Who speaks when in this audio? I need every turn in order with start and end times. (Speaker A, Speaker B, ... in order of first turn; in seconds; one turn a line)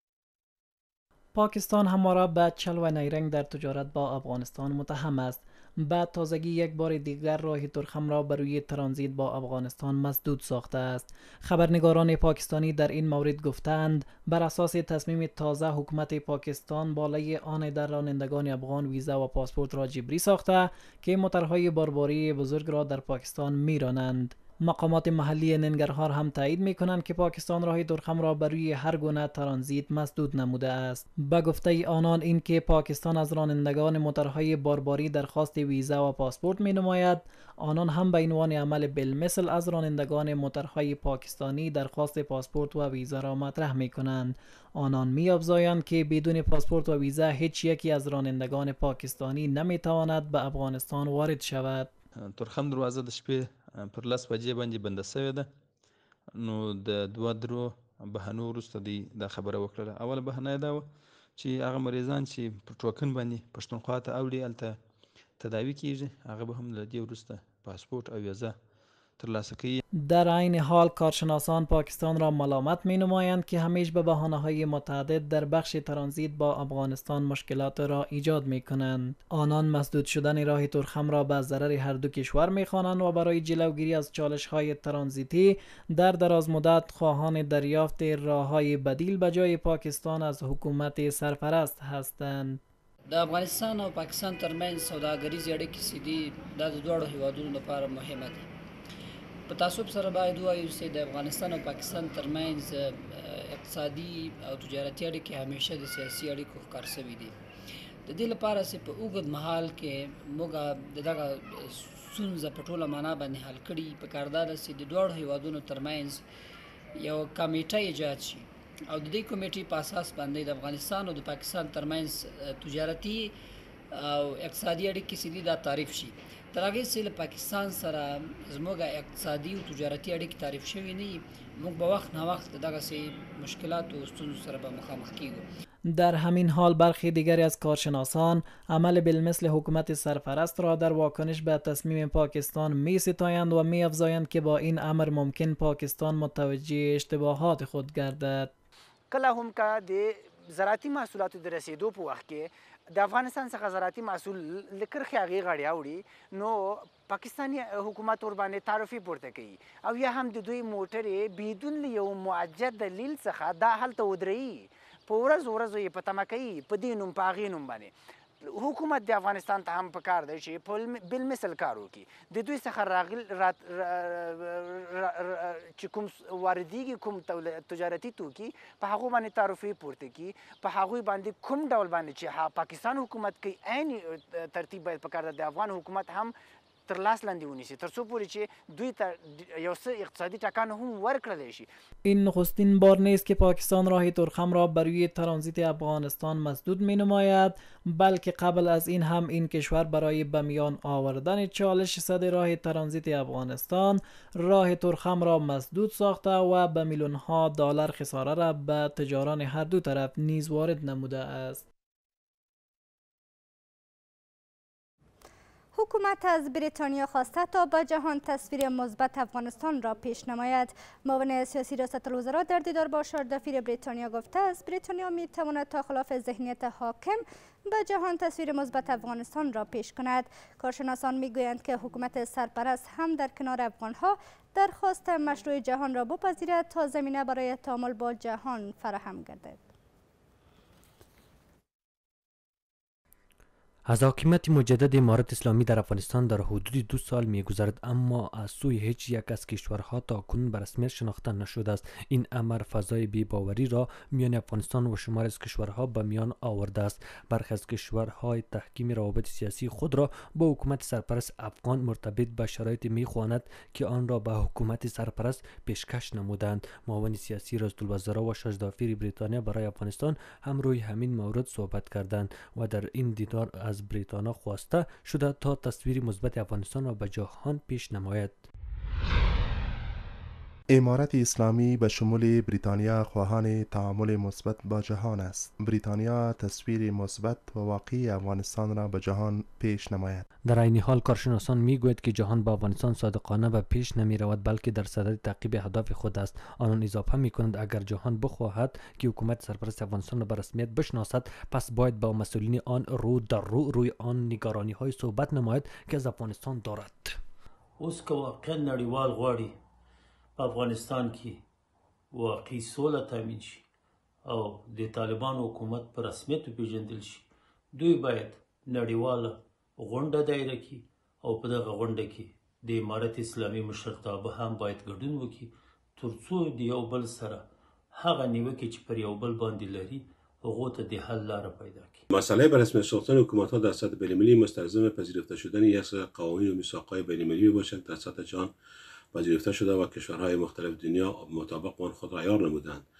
Speaker A: 1.3-51.9
Speaker B: 52.2-55.5
Speaker B: 56.3-60.8
Speaker B: 61.4-64.8
Speaker B: 65.4-68.5
Speaker B: 69.2-69.8
Speaker A: 70.0-92.6
Speaker C: 93.1-98.5
Speaker C: 99.5-107.3
Speaker C: 108.1-116.2
Speaker C: 116.9-123.3
Speaker C: 123.9-135.4
Speaker A: 135.9-148.5
Speaker D: 149.1-186.3
Speaker D: 186.9-191.7
Speaker A: 192.1-211.6
Speaker E: 215.7-239.7
Speaker F: 243.9-278.4
Speaker G: 280.7-290.2
Speaker F: 290.5-307.2
Speaker H: 307.8-309.6
Speaker H: 310.4-311.4
Speaker H: 312.1-313.6
Speaker H: 314.2-332.0
Speaker I: 332.1-338.5
Speaker I: 339.1-342.8